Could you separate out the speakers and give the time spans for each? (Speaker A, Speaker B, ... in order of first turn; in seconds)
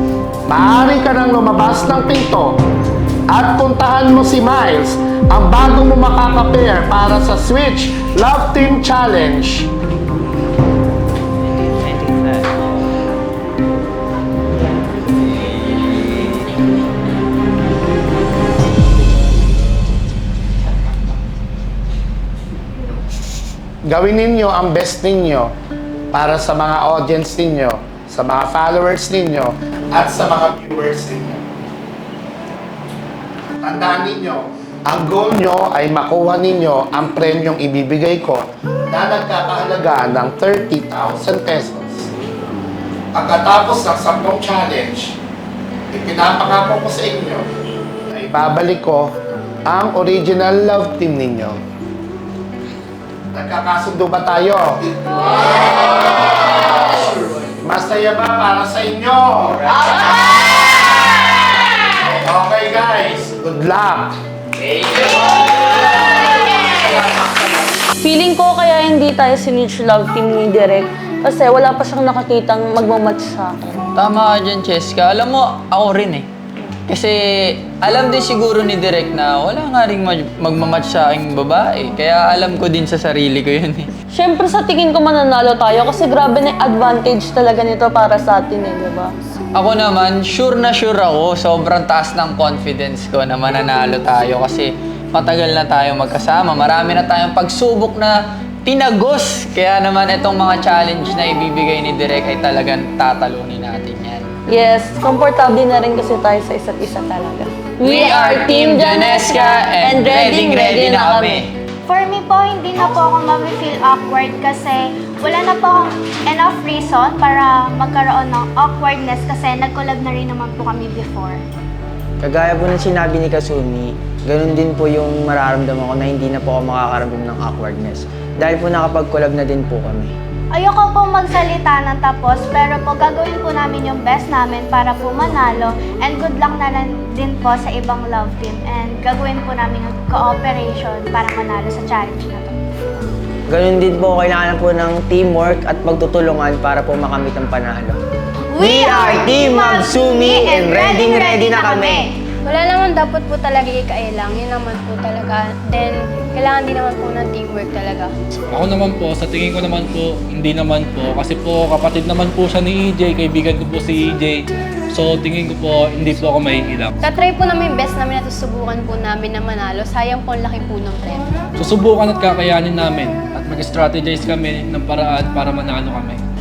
Speaker A: 0.5-2.6, 3.3-9.7, 23.9-25.5, 26.1-31.4, 33.6-42.1, 43.1-45.1, 45.9-47.5, 48.1-49.1, 49.7-51.6, 53.3-56.4, 57.6-60.4, 62.2-64.1
Speaker B: 68.0-73.8, 84.1-89.1, 104.5-111.4
Speaker C: 74.0-76.3, 76.9-83.9, 89.5-104.3, 107.8-111.5
Speaker D: 111.9-121.4, 130.5-142.5, 148.5-152.2
Speaker E: 122.2-130.1, 143.5-148.0, 150.9-151.9
Speaker F: 152.4-158.1, 167.0-171.3
Speaker G: 158.5-166.9, 171.6-176.2